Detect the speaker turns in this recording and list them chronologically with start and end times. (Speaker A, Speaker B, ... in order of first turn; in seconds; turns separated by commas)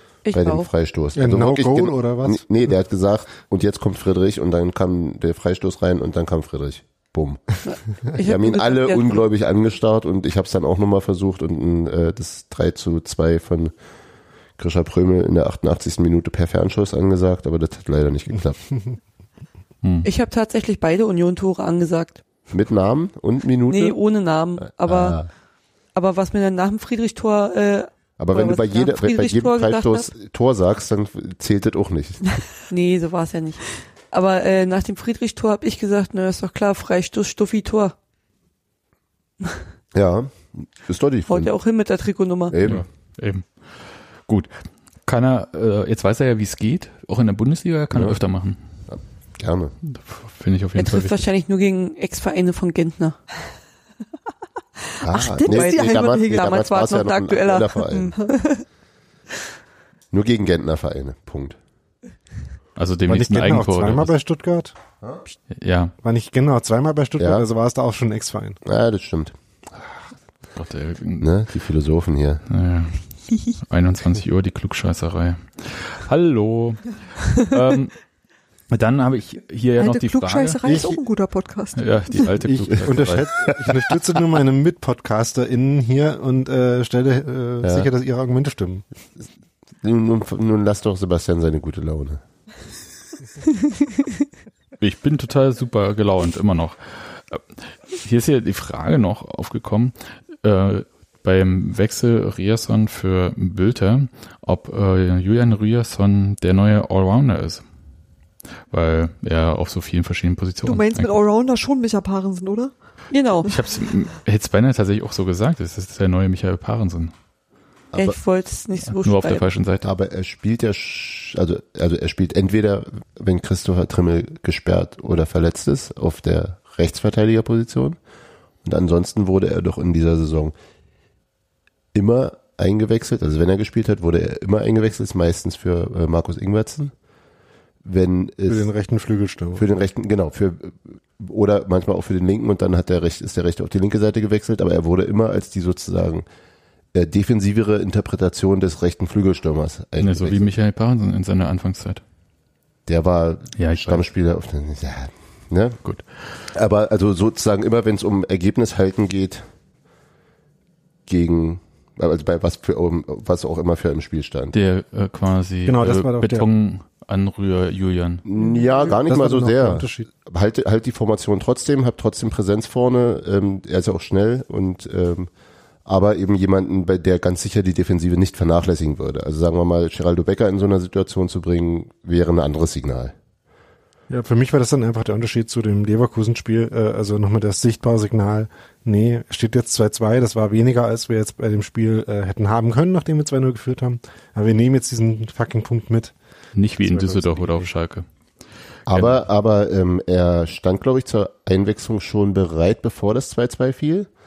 Speaker A: 0.2-0.7, Speaker B: 0.3-13.7, Speaker C: 1.1-2.7, Speaker A: 7.6-9.2, Speaker B: 14.6-18.9, Speaker A: 20.0-22.2, Speaker B: 22.5-24.0, Speaker A: 23.7-25.2, Speaker B: 24.6-25.3, Speaker A: 25.9-30.1, Speaker B: 28.2-32.4, Speaker A: 32.7-37.9, Speaker B: 39.9-41.5, Speaker A: 41.3-42.5, Speaker B: 42.5-42.8, Speaker D: 42.6-44.5, Speaker D: 45.0-48.6, Speaker B: 47.9-48.2, Speaker B: 48.9-49.8, Speaker D: 49.9-51.1, Speaker A: 50.8-53.1, Speaker B: 55.0-58.1, Speaker E: 55.1-56.5, Speaker A: 55.2-58.6, Speaker B: 60.1-61.5, Speaker D: 62.8-64.1, Speaker C: 63.1-64.7, Speaker D: 65.5-65.9, Speaker C: 66.0-68.6, Speaker B: 67.2-67.4, Speaker B: 68.6-69.9, Speaker D: 70.5-71.3, Speaker B: 71.2-72.4, Speaker D: 72.5-78.0, Speaker D: 78.7-80.6, Speaker E: 79.8-82.1, Speaker B: 80.6-80.9, Speaker D: 81.7-83.3, Speaker B: 82.4-83.8, Speaker C: 82.8-88.8, Speaker B: 87.6-87.9, Speaker B: 89.8-92.2, Speaker D: 94.8-107.6, Speaker D: 108.7-111.2, Speaker E: 110.6-112.7, Speaker A: 113.1-113.5, Speaker D: 113.5-117.1, Speaker B: 117.9-118.2, Speaker A: 117.9-119.5, Speaker D: 118.9-119.8, Speaker B: 119.8-128.0, Speaker B: 128.6-130.5, Speaker B: 131.9-136.9, Speaker B: 137.8-138.7, Speaker C: 138.5-139.6, Speaker B: 139.6-146.2, Speaker B: 146.9-150.5, Speaker D: 150.0-152.0, Speaker B: 152.8-155.8, Speaker D: 153.6-154.1, Speaker B: 156.5-159.4, Speaker B: 161.1-164.5, Speaker D: 164.5-168.2, Speaker C: 165.7-166.4, Speaker B: 168.2-175.3, Speaker C: 168.4-170.1, Speaker B: 175.8-183.1, Speaker C: 184.1-196.1, Speaker D: 196.5-198.1, Speaker C: 196.8-197.7, Speaker B: 198.9-204.1